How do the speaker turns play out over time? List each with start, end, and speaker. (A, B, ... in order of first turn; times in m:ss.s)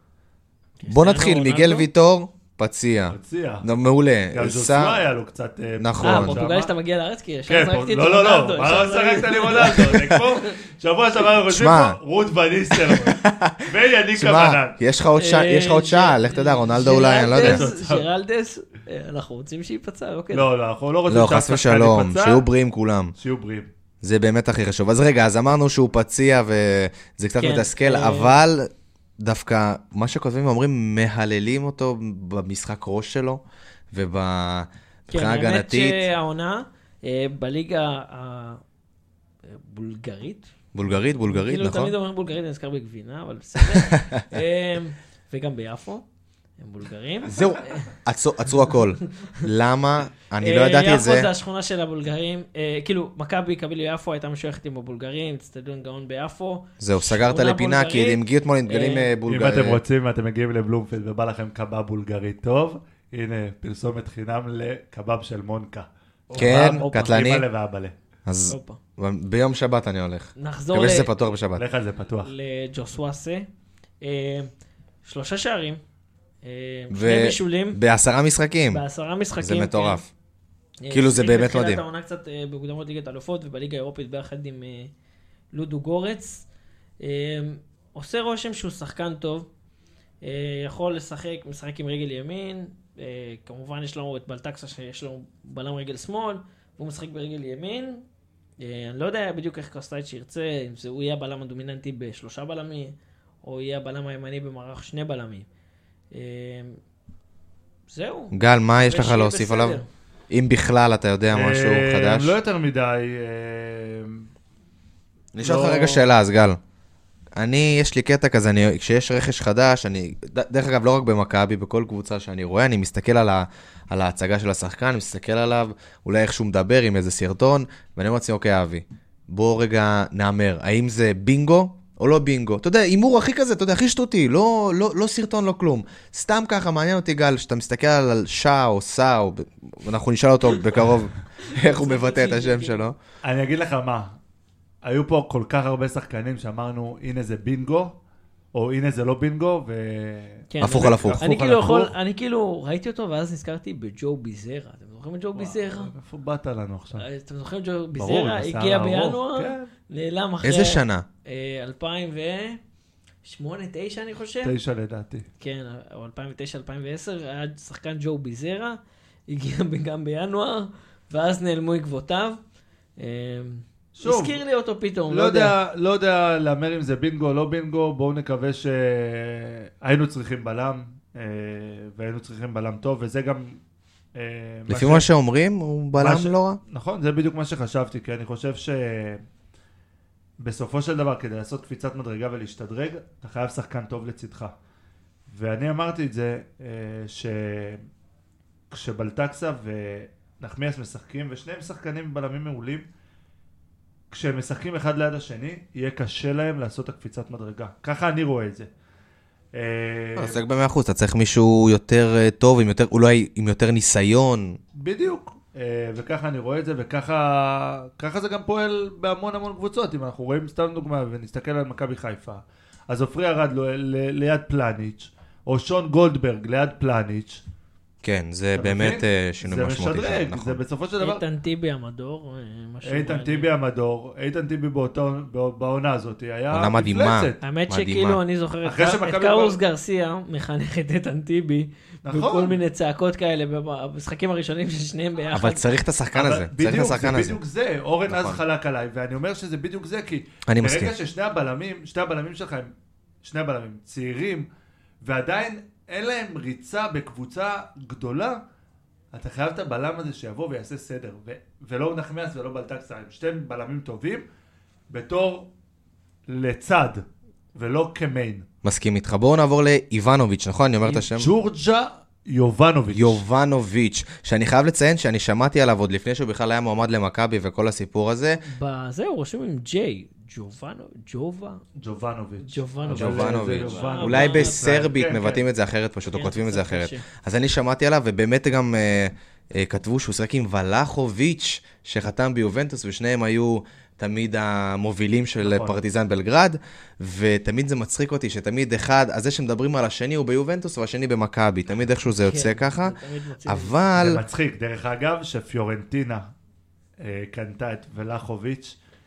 0:00.8-0:01.9 A
0:00.9-0:05.0 B
0:03.1-0:03.7 C
0:04.3-0:06.7 C
0:05.8-0:06.4 B
0:06.0-0:10.5 A
0:07.5-0:14.8 C
0:11.4-0:12.0 B
0:12.7-0:17.6 B
0:15.1-0:20.5 A
0:17.2-0:18.1 C
0:20.3-0:22.4 C
0:21.1-0:23.1 B
0:23.1-0:23.7 C
0:24.0-0:36.0 B
0:27.4-0:28.4 A
0:35.1-0:38.6 A
0:39.4-0:40.5 A
0:40.7-0:41.9 B
0:41.2-0:46.0 A
0:43.7-0:44.1 B
0:46.6-0:47.9 A
0:47.2-0:51.3 B
0:50.4-0:59.1 A
0:56.8-0:59.8 B
0:59.2-1:07.9 C
1:06.3-1:07.1 A
1:06.4-1:07.4 B
1:08.2-1:11.6 B
1:08.5-1:08.8 A
1:10.4-1:11.1 A
1:11.6-1:12.3 C
1:12.2-1:13.5 A
1:14.0-1:14.5 A
1:15.0-1:15.8 A
1:16.4-1:17.8 A
1:16.9-1:18.8 B
1:18.7-1:20.0 A
1:19.4-1:20.1 B
1:20.8-1:24.9 A
1:20.9-1:21.8 B
1:25.5-1:26.5 A
1:27.0-1:29.5 A
1:30.2-1:38.0 A
1:38.6-1:45.5 A
1:46.1-1:46.8 A
1:47.9-1:49.9 A
1:48.3-1:49.8 B
1:50.3-1:52.3 B
1:51.3-1:54.2 C
1:55.3-1:56.6 B
1:55.4-1:56.1 C
1:57.3-2:23.0 B
2:21.4-2:22.8 A
2:23.2-2:24.2 C
2:24.8-2:27.9 C
2:28.5-2:31.9 C
2:30.5-2:35.9 A
2:30.6-2:31.2 B
2:35.3-2:37.0 C
2:37.0-2:42.6 A
2:38.0-2:39.7 C
2:40.4-2:41.0 B
2:43.2-2:44.5 A
2:44.4-2:45.2 C
2:45.4-2:52.4 A
2:53.0-2:55.5 A
2:54.0-2:54.4 C
2:55.1-3:03.6 C
3:04.1-3:05.1 C
3:04.7-3:06.6 B
3:06.0-3:09.2 C
3:10.4-3:14.5 C
3:15.3-3:17.8 C
3:18.7-3:22.8 C
3:24.1-3:28.7 C
3:29.5-3:30.4 C
3:30.2-3:34.6 B
3:34.7-3:47.4 C
3:48.0-3:50.6 B
3:48.5-3:51.2 C
3:51.0-3:53.5 A
3:52.8-3:57.4 C
3:56.5-3:58.2 B
3:57.4-4:05.6 A
3:58.6-3:59.6 C
4:02.0-4:02.6 C
4:05.3-4:07.4 B
4:06.1-4:14.5 C
4:08.1-4:08.4 B
4:10.5-4:10.9 B
4:15.0-4:18.4 C
4:19.1-4:24.2 C
4:24.9-4:25.5 C
4:26.3-4:28.4 C
4:28.6-4:31.3 B
4:31.0-4:33.2 C
4:32.9-4:38.4 B
4:38.4-4:41.6 A
4:41.8-4:45.4 C
4:42.4-4:44.6 A
4:42.9-5:04.2 B
4:46.0-4:47.0 A
4:55.4-4:55.8 C
5:02.2-5:03.8 A
5:04.0-5:06.3 C
5:07.0-5:08.8 C